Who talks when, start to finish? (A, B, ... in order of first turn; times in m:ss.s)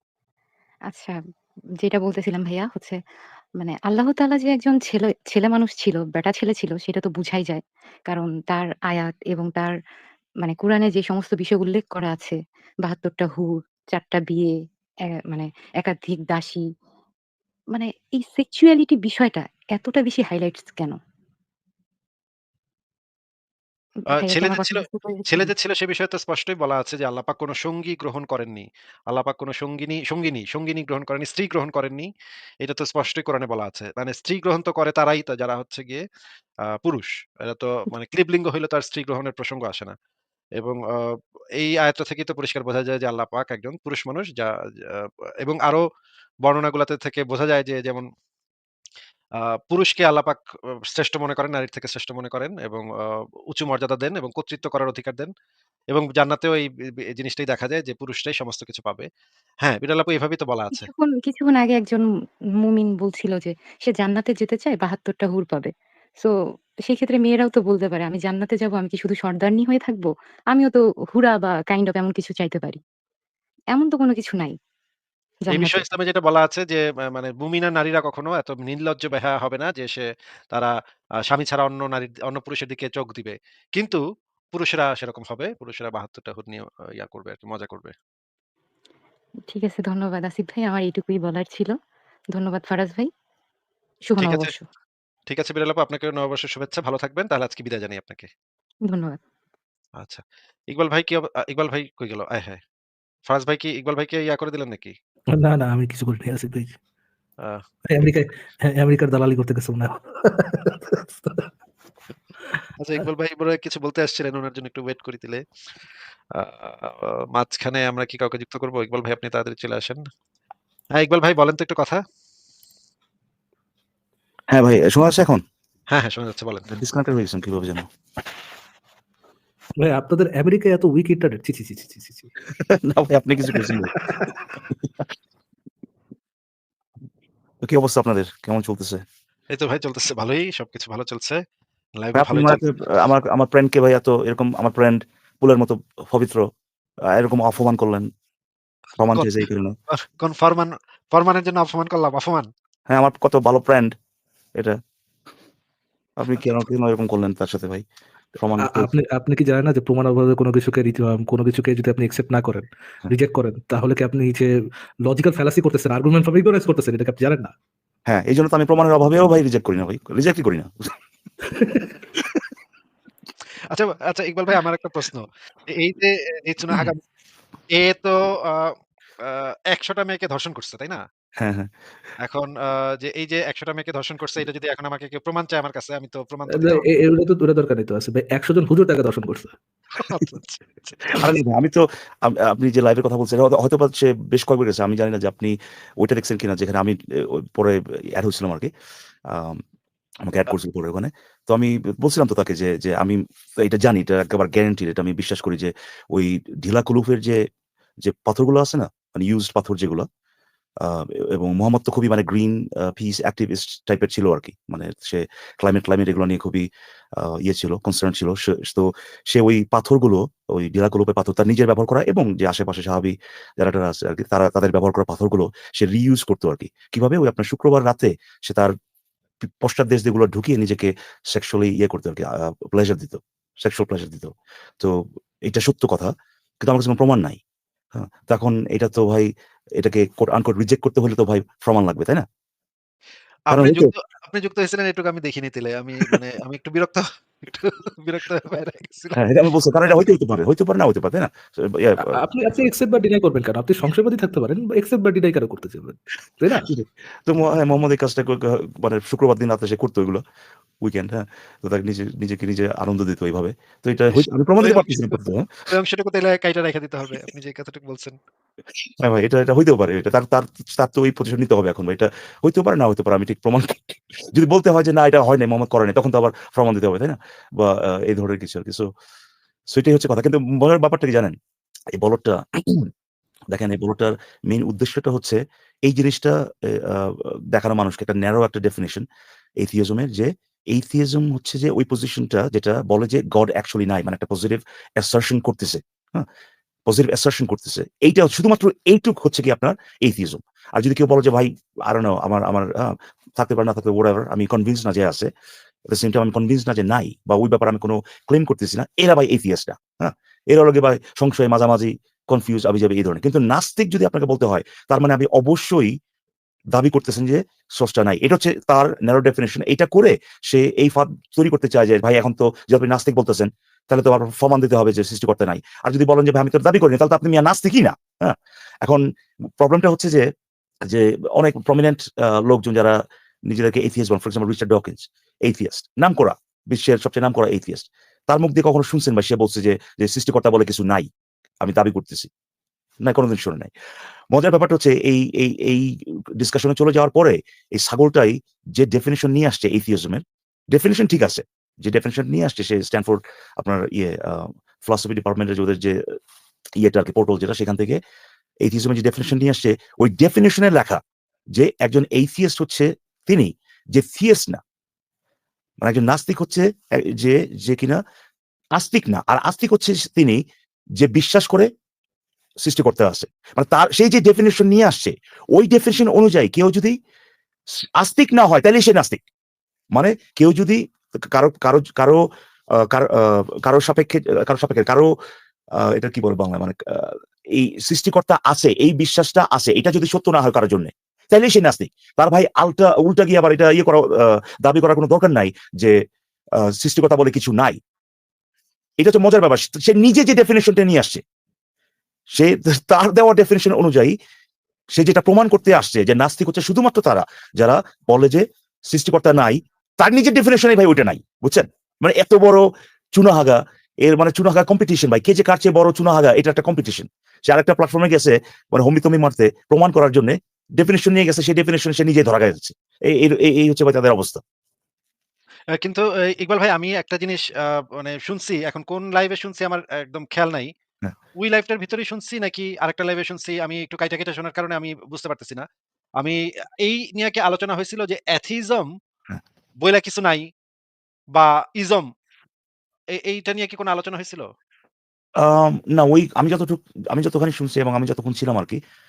0:00.9-0:01.2 A
0:01.8-0:03.0 A
0:03.6-0:09.8 A
0:10.4-0:14.5 A
0:15.3-0:16.6 A
0:17.7-0:21.0 A
0:24.1-0:25.5 A
0:24.2-0:32.1 B
0:32.6-0:36.0 B
0:36.7-0:39.9 B
0:40.6-0:45.8 B
0:46.4-0:48.0 B
0:49.7-0:50.4 B
0:50.9-0:52.9 B
0:53.5-0:55.3 B
0:55.9-0:59.1 B
0:59.6-1:00.9 B
1:00.7-1:02.0 A
1:02.6-1:06.3 A
1:06.8-1:12.8 A
1:13.7-1:14.6 A
1:15.5-1:15.9 A
1:15.5-1:20.7 B
1:21.3-1:24.0 B
1:24.5-1:27.9 B
1:29.5-1:31.7 A
1:32.3-1:33.1 A
1:34.1-1:34.7 A
1:34.2-1:34.5 B
1:35.3-1:38.3 B
1:38.9-1:39.2 A
1:40.0-1:42.6 B
1:43.3-1:44.9 B
1:45.4-1:46.7 C
1:47.9-1:51.5 C
1:52.8-1:55.4 B
1:56.4-2:00.0 B
2:01.0-2:02.0 B
2:04.5-2:05.4 D
2:05.9-2:06.7 B
2:06.7-2:07.8 D
2:09.8-2:12.3 C
2:12.6-2:13.9 D
2:13.5-2:14.3 C
2:17.6-2:19.0 D
2:19.5-2:21.4 B
2:22.0-2:22.6 B
2:22.2-2:26.4 D
2:27.1-2:28.1 D
2:29.0-2:29.7 D
2:29.1-2:32.5 B
2:32.9-2:33.9 D
2:36.2-2:37.8 D
2:38.4-2:38.9 D
2:38.6-2:44.5 C
2:45.0-2:47.5 C
2:48.1-2:50.9 D
2:51.5-2:51.9 C
2:53.7-2:57.0 B
2:57.8-3:01.0 B
3:01.4-3:01.7 D
3:02.2-3:06.8 B
3:06.5-3:09.5 C
3:09.9-3:11.2 B
3:11.2-3:18.7 D
3:19.3-3:19.6 D
3:20.3-3:27.4 D
3:28.0-3:30.1 D
3:30.8-3:36.6 D
3:37.2-3:48.7 D
3:49.4-3:57.4 D
3:57.9-4:02.2 D
4:03.5-4:09.2 B
4:03.5-4:03.9 D
4:09.2-4:12.0 D
4:12.0-4:16.7 C
4:16.6-4:20.2 D
4:20.8-4:25.5 D
4:24.1-4:25.2 B
4:25.7-4:28.2 B
4:29.0-4:38.9 D
4:39.7-4:41.4 D
4:42.0-4:42.9 D
4:43.5-4:49.0 D
4:49.6-4:56.2 D
4:56.9-5:05.3 D
5:05.9-5:15.9 D
5:16.7-5:29.0 D
5:29.6-5:30.2 D
5:30.9-5:33.0 D
5:33.5-5:41.1 D
5:41.6-5:42.3 D
5:43.0-5:43.7 D
5:44.3-5:45.9 D
5:46.4-5:56.0 D
5:56.8-5:58.0 D
5:58.6-6:01.0 D
6:01.6-6:04.6 D
6:05.8-6:08.0 D
6:08.8-6:10.4 D
6:11.0-6:11.7 D
6:12.6-6:17.0 D
6:18.0-6:19.2 D
6:19.9-6:20.8 D
6:21.3-6:22.2 D
6:22.9-6:25.1 D
6:25.9-6:36.0 D
6:36.8-6:37.8 D
6:39.0-6:41.2 D
6:42.3-6:44.2 D
6:45.0-7:04.4 D
7:05.8-7:10.7 B
7:11.4-7:15.6 B
7:16.2-7:18.9 B
7:19.8-7:20.5 B
7:21.3-7:22.1 B
7:23.2-7:24.5 B
7:25.4-7:28.8 D